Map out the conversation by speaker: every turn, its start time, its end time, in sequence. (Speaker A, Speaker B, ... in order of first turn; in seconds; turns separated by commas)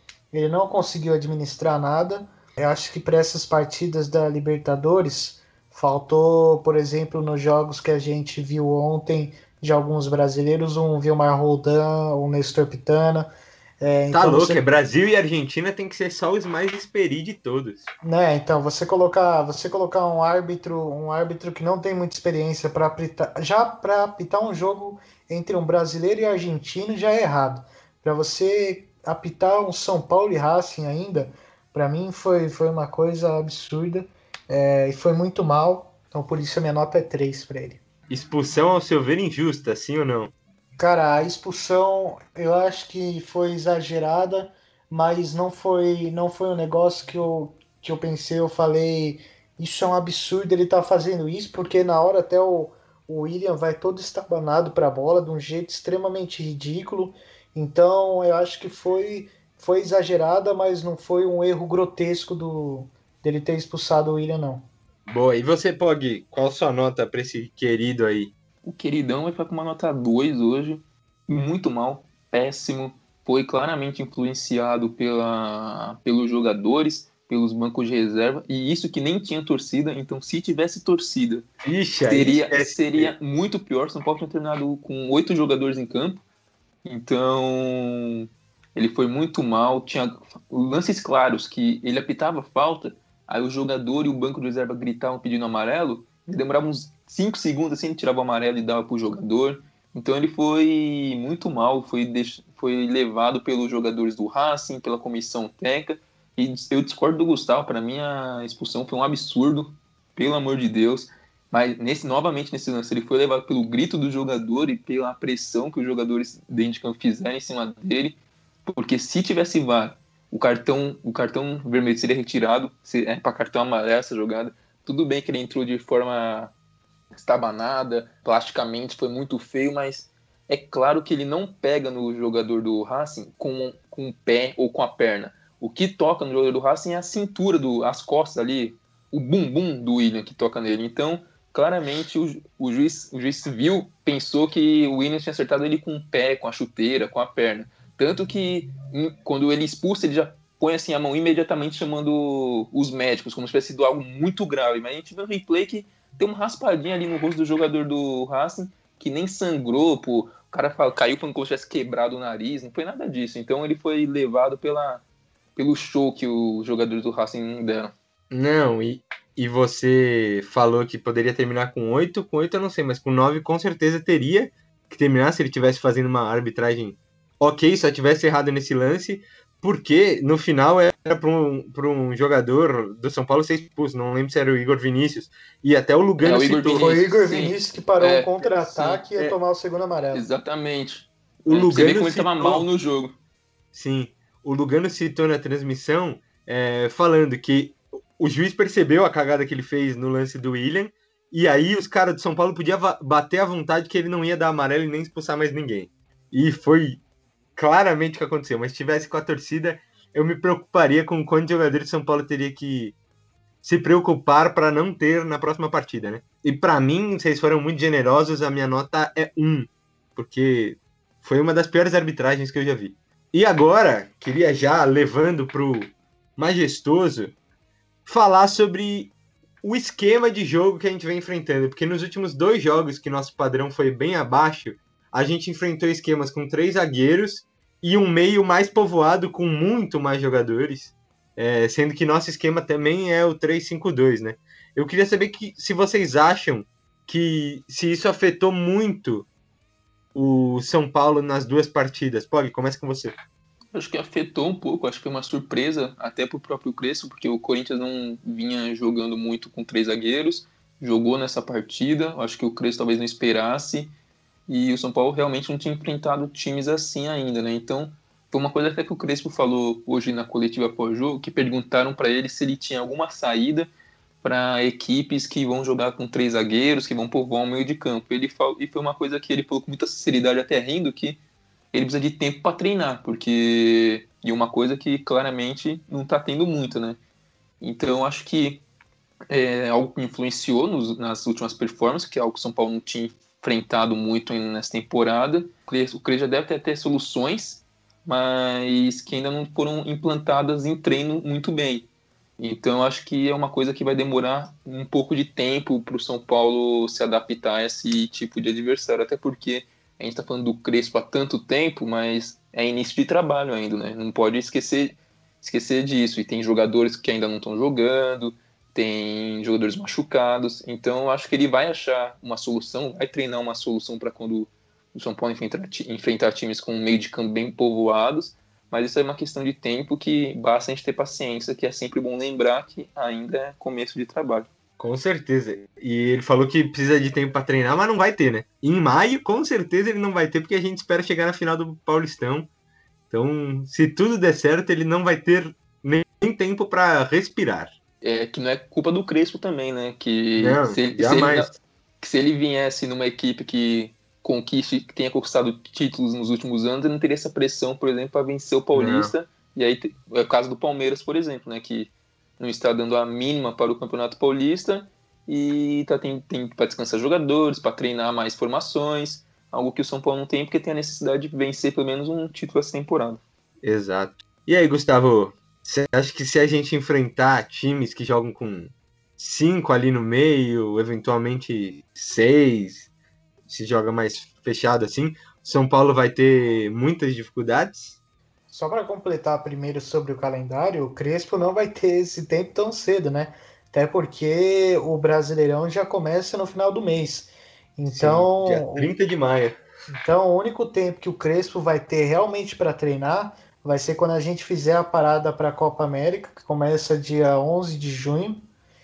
Speaker A: 0.3-13.3, Speaker A: 13.8-14.6, Speaker B: 14.1-17.9, Speaker A: 18.0-37.8, Speaker B: 38.1-40.3, Speaker A: 40.8-64.7, Speaker B: 65.1-68.3, Speaker C: 68.6-81.5, Speaker B: 81.6-83.1, Speaker C: 82.1-86.2, Speaker C: 86.8-126.5, Speaker C: 127.1-165.0, Speaker C: 165.6-167.9, Speaker B: 168.3-187.0, Speaker C: 186.2-189.1, Speaker A: 186.7-190.2, Speaker C: 190.1-193.2, Speaker B: 191.5-192.7, Speaker B: 193.7-207.0, Speaker B: 207.6-213.0, Speaker B: 213.6-227.4, Speaker B: 228.1-249.3, Speaker B: 250.1-253.1, Speaker C: 253.7-263.9, Speaker C: 264.5-273.7, Speaker C: 274.2-281.2, Speaker C: 281.7-287.0, Speaker C: 287.6-288.6, Speaker C: 289.3-334.5, Speaker B: 334.8-342.5, Speaker B: 343.1-347.7, Speaker C: 348.0-373.2, Speaker B: 350.4-351.6, Speaker B: 358.7-359.1, Speaker B: 373.6-382.9, Speaker B: 383.5-388.0, Speaker A: 388.5-398.9, Speaker B: 397.9-399.6, Speaker A: 400.0-408.4